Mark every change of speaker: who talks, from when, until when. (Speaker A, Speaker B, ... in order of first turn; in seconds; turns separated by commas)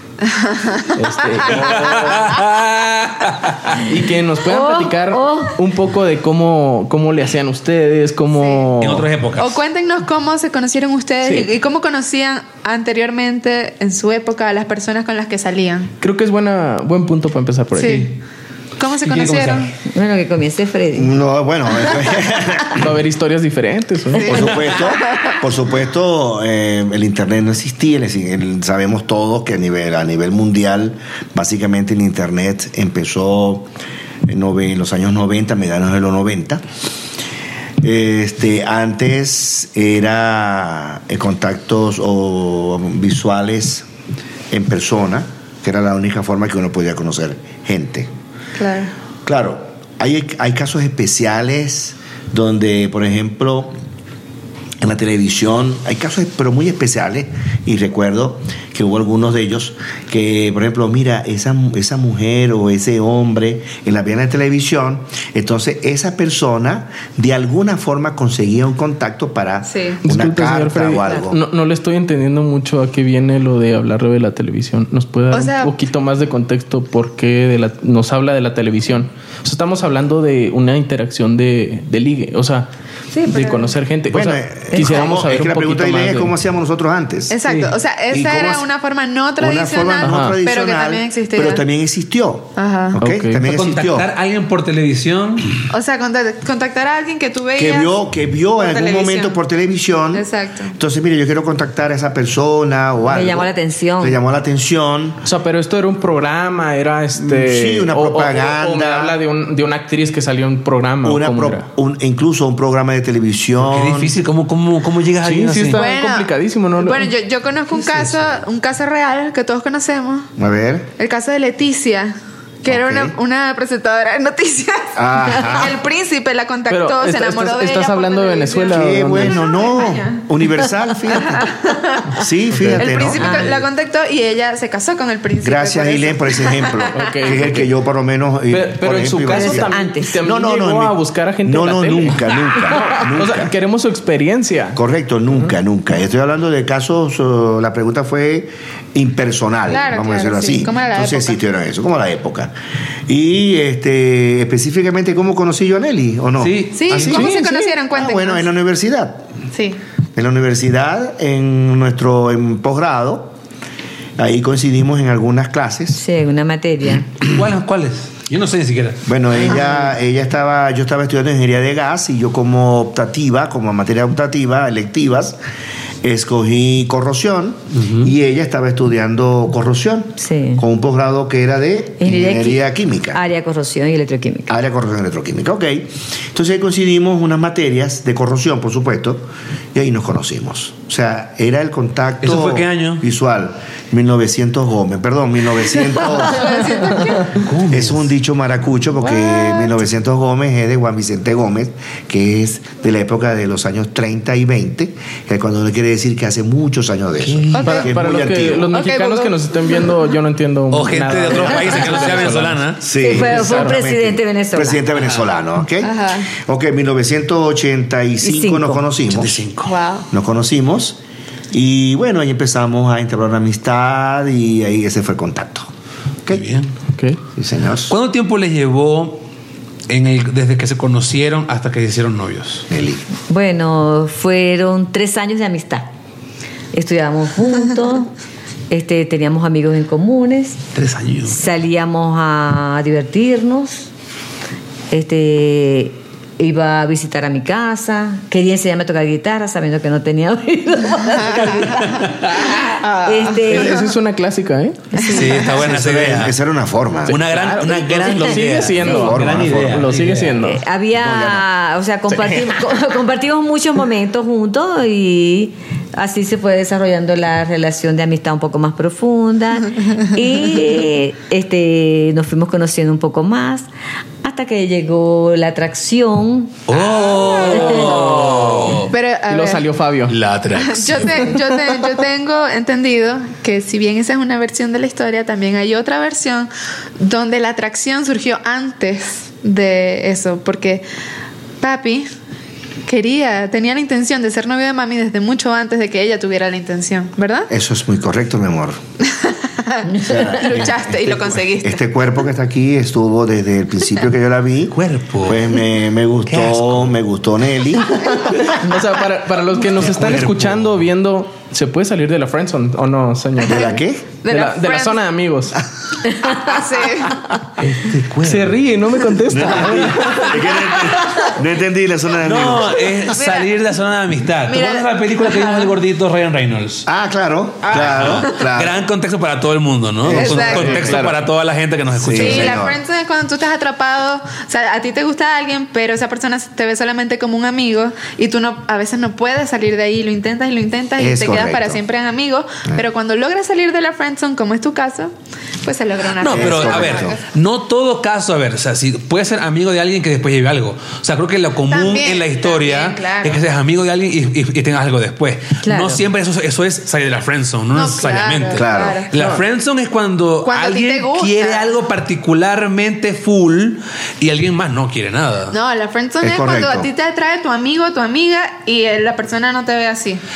Speaker A: 0.3-2.1, Speaker B: 0.9-2.3, Speaker C: 1.5-3.8, Speaker B: 3.8-9.1, Speaker D: 4.5-5.6, Speaker A: 8.4-8.7, Speaker C: 8.8-9.6, Speaker A: 9.4-15.9, Speaker B: 11.2-11.5, Speaker B: 16.0-18.1, Speaker A: 17.8-18.1, Speaker C: 17.8-18.1, Speaker A: 18.8-19.7, Speaker C: 19.0-19.7, Speaker D: 19.9-21.1, Speaker E: 20.9-22.9, Speaker B: 22.7-24.6, Speaker A: 24.1-25.4, Speaker E: 24.2-33.7, Speaker E: 34.3-36.6, Speaker E: 37.8-43.9, Speaker E: 44.5-48.1, Speaker A: 48.6-48.9, Speaker E: 49.2-53.7, Speaker E: 54.8-71.4, Speaker A: 69.7-70.0, Speaker B: 70.0-82.7, Speaker A: 75.3-75.7, Speaker A: 83.2-83.7, Speaker B: 83.3-86.3, Speaker E: 84.1-87.4, Speaker A: 87.3-91.6, Speaker B: 87.5-87.8, Speaker E: 88.1-88.7, Speaker E: 89.4-94.1, Speaker B: 90.0-90.4, Speaker A: 92.6-93.0, Speaker B: 93.0-93.4, Speaker C: 93.4-95.5, Speaker A: 95.7-97.9, Speaker E: 97.6-103.5, Speaker A: 98.6-99.4, Speaker A: 100.1-100.7, Speaker D: 103.1-104.2, Speaker E: 104.0-105.2, Speaker B: 105.2-111.7, Speaker E: 107.2-109.2, Speaker E: 111.0-114.2, Speaker C: 113.6-115.8, Speaker B: 115.2-117.1, Speaker A: 115.8-120.3, Speaker E: 118.1-118.4, Speaker E: 120.4-120.9, Speaker A: 121.0-130.2, Speaker E: 122.7-123.2, Speaker E: 125.0-125.8, Speaker B: 126.7-129.4, Speaker E: 128.7-131.5, Speaker A: 131.1-137.3, Speaker E: 132.1-133.7, Speaker D: 133.2-133.4, Speaker E: 135.4-143.5, Speaker B: 136.9-137.7, Speaker B: 138.5-144.8, Speaker D: 139.3-140.2, Speaker E: 144.8-152.5, Speaker A: 149.7-151.4, Speaker E: 153.1-159.3, Speaker C: 156.4-157.2, Speaker A: 156.8-158.5, Speaker B: 157.0-157.6, Speaker A: 159.5-159.8, Speaker E: 160.2-163.3, Speaker E: 164.2-166.0, Speaker D: 165.9-167.1, Speaker C: 167.2-169.4, Speaker E: 169.1-175.4, Speaker A: 169.5-169.8, Speaker E: 176.0-183.2, Speaker C: 177.7-178.1, Speaker D: 180.2-180.6, Speaker D: 182.0-184.6, Speaker E: 184.5-196.9, Speaker C: 192.2-193.0, Speaker A: 196.2-197.3, Speaker C: 197.3-198.1, Speaker E: 197.7-208.8, Speaker A: 199.1-199.7, Speaker C: 207.2-207.8, Speaker A: 207.5-207.9, Speaker B: 207.6-213.8, Speaker A: 208.7-209.3, Speaker C: 210.7-212.8, Speaker E: 212.8-219.5, Speaker D: 213.0-214.8, Speaker A: 215.8-216.3, Speaker D: 218.2-218.8, Speaker C: 219.1-219.8, Speaker A: 219.7-220.1, Speaker E: 220.1-221.0, Speaker E: 221.5-225.7, Speaker C: 226.3-226.7, Speaker B: 226.9-227.2, Speaker E: 227.4-228.0, Speaker C: 227.9-229.2, Speaker C: 229.9-232.7, Speaker E: 232.7-233.1, Speaker D: 233.3-235.9, Speaker D: 236.7-238.1, Speaker D: 238.7-240.6, Speaker C: 240.8-241.4, Speaker D: 241.3-243.9, Speaker D: 244.9-252.0, Speaker A: 251.3-251.9, Speaker C: 251.4-252.4, Speaker B: 252.8-254.9, Speaker D: 253.0-253.9, Speaker D: 254.9-255.4, Speaker A: 255.0-255.5, Speaker C: 255.1-256.4, Speaker E: 255.6-257.2, Speaker C: 257.1-260.4, Speaker B: 257.2-260.6, Speaker D: 258.0-258.4, Speaker E: 258.8-259.8, Speaker D: 260.4-273.7, Speaker E: 260.9-261.5, Speaker B: 262.1-262.5, Speaker D: 274.2-276.6, Speaker C: 276.7-278.9, Speaker A: 276.8-278.1, Speaker D: 277.6-277.9, Speaker B: 277.8-278.8, Speaker A: 278.9-279.7, Speaker B: 279.3-280.2, Speaker C: 280.1-281.2, Speaker A: 280.5-290.9, Speaker A: 291.6-292.1, Speaker A: 292.9-297.5, Speaker E: 297.5-298.8, Speaker A: 299.0-301.8, Speaker E: 300.0-308.4, Speaker C: 304.7-305.5, Speaker C: 306.3-306.9, Speaker B: 308.1-315.6, Speaker C: 309.8-310.8, Speaker E: 313.4-314.1, Speaker A: 314.2-315.0, Speaker A: 316.1-317.3, Speaker C: 317.6-318.6, Speaker B: 318.2-320.4, Speaker E: 319.3-323.0, Speaker A: 321.0-321.2, Speaker C: 322.2-326.9, Speaker A: 323.2-323.5, Speaker A: 324.5-325.8, Speaker E: 326.9-328.8, Speaker C: 327.7-332.6, Speaker E: 330.0-331.2, Speaker A: 330.1-330.9, Speaker E: 331.9-332.8, Speaker A: 332.1-345.1, Speaker E: 341.0-341.8, Speaker A: 345.6-347.2, Speaker C: 346.2-365.6, Speaker E: 346.2-347.2, Speaker A: 351.7-353.4, Speaker D: 355.6-356.0, Speaker A: 357.7-359.1, Speaker E: 358.6-359.0, Speaker B: 359.1-359.4, Speaker A: 360.4-361.7, Speaker A: 365.5-370.2, Speaker E: 366.2-366.9